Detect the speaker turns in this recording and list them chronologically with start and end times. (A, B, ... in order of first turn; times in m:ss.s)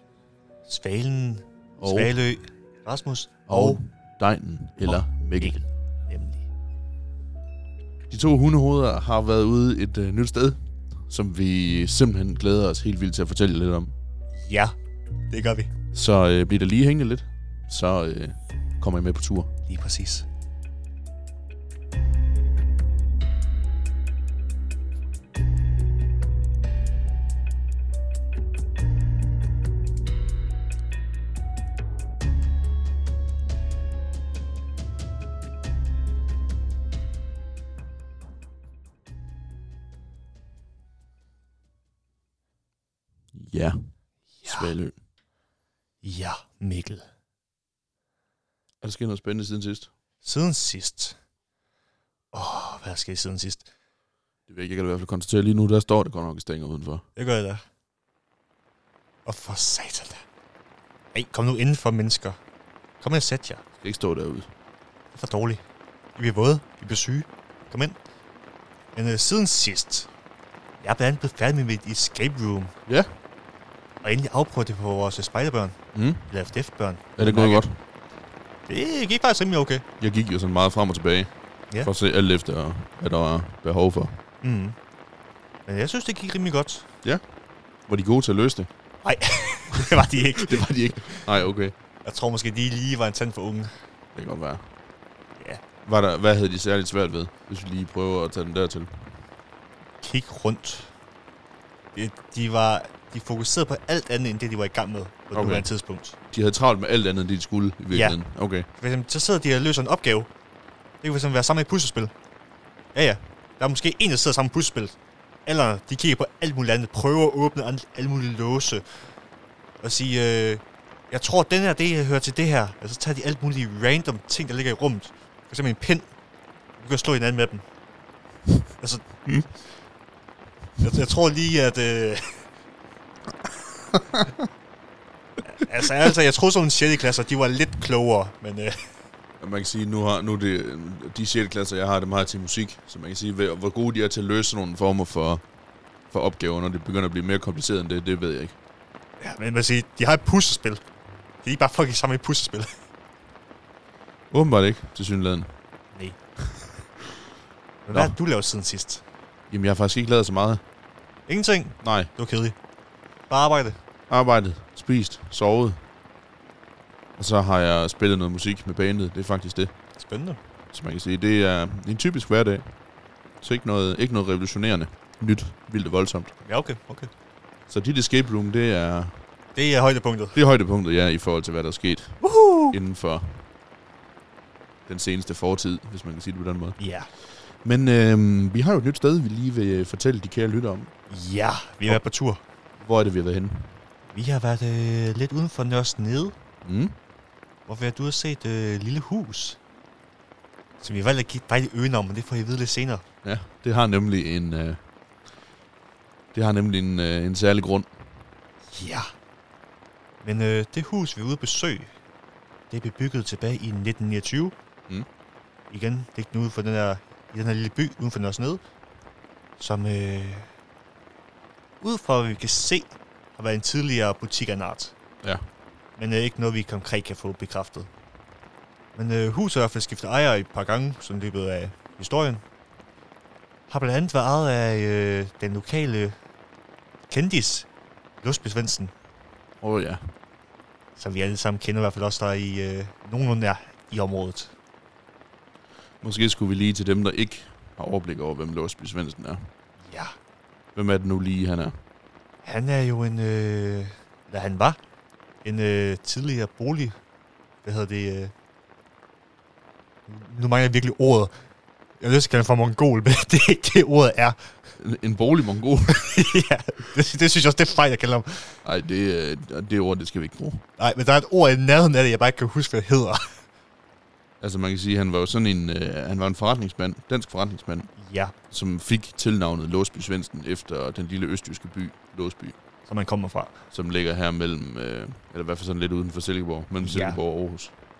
0:00.6-0:03.8 A
0:01.8-0:02.1 B
0:03.5-0:05.6 B
0:04.8-0:06.4 A
0:08.1-0:13.9 B
0:14.3-0:14.8 A
0:15.3-0:15.7 A
0:15.9-0:19.5 B
0:19.7-0:20.3 A
0:43.3-0:45.0 B
0:44.4-0:44.7 A
0:46.0-0:47.1 A
0:48.8-0:49.9 B
0:50.2-0:51.2 A
0:52.3-0:53.7 A
0:54.5-0:57.0 B
0:57.2-0:57.6 A
0:59.2-1:00.2 A
1:01.1-1:02.4 A
1:03.0-1:03.6 A
1:03.8-1:04.5 B
1:05.1-1:05.6 A
1:06.2-1:08.0 A
1:08.9-1:10.1 A
1:10.8-1:12.7 A
1:14.0-1:17.6 A
1:15.9-1:16.3 B
1:17.2-1:17.8 B
1:18.7-1:19.8 A
1:20.0-1:21.3 B
1:21.8-1:24.2 B
1:24.4-1:24.8 A
1:25.6-1:26.9 A
1:27.9-1:28.7 B
1:29.0-1:31.3 A
1:29.7-1:31.7 B
1:32.0-1:33.7 A
1:34.1-1:34.7 B
1:35.4-1:35.6 A
1:35.8-1:39.1 B
1:40.0-1:40.9 A
1:41.9-1:46.2 A
1:45.3-1:45.7 B
1:46.3-1:48.7 B
1:47.9-1:48.2 A
1:48.7-1:50.3 A
1:51.0-1:52.1 A
1:52.9-1:59.1 A
1:59.8-2:06.1 A
2:06.8-2:07.6 A
2:08.8-2:09.4 A
2:10.8-2:12.5 A
2:15.4-2:18.9 A
2:19.4-2:25.4 B
2:26.1-2:28.5 B
2:29.2-2:30.8 A
2:31.4-2:32.8 A
2:34.3-2:35.5 B
2:37.9-2:39.0 A
2:39.5-2:40.6 B
2:41.3-2:42.6 A
2:41.8-2:42.1 B
2:43.3-2:43.8 A
2:44.1-2:45.8 B
2:47.2-2:49.7 B
2:50.0-2:50.4 A
2:50.7-2:52.7 B
2:53.4-2:56.3 B
2:56.4-2:57.1 A
2:57.7-2:59.2 B
2:59.5-3:00.4 A
3:00.3-3:03.4 B
3:02.2-3:02.8 A
3:04.9-3:10.9 B
3:06.8-3:07.1 A
3:11.1-3:12.4 A
3:12.8-3:13.8 B
3:14.1-3:16.4 A
3:16.6-3:17.0 B
3:17.7-3:19.6 A
3:20.8-3:23.0 A
3:23.2-3:24.8 B
3:26.3-3:27.9 B
3:28.7-3:29.1 A
3:30.2-3:31.9 A
3:32.7-3:34.5 A
3:35.7-3:38.6 A
3:39.6-3:40.5 A
3:41.8-3:44.9 A
3:46.0-3:47.9 A
3:48.9-3:52.4 A
3:53.7-3:56.2 A
3:57.1-3:57.7 A
3:58.2-3:58.9 A
3:59.6-4:00.1 B
4:01.0-4:04.5 A
4:06.0-4:09.5 B
4:09.8-4:10.2 A
4:10.7-4:11.8 B
4:12.4-4:14.8 A
4:15.4-4:17.0 A
4:17.6-4:18.3 A
4:20.1-4:21.3 A
4:22.0-4:24.6 A
4:24.8-4:26.2 B
4:25.9-4:28.6 A
4:28.6-4:30.6 B
4:30.8-4:33.4 A
4:34.4-4:37.9 B
4:38.0-4:38.3 A
4:38.5-4:42.6 B
4:42.8-4:43.6 A
4:43.7-4:47.7 B
4:46.8-4:47.2 A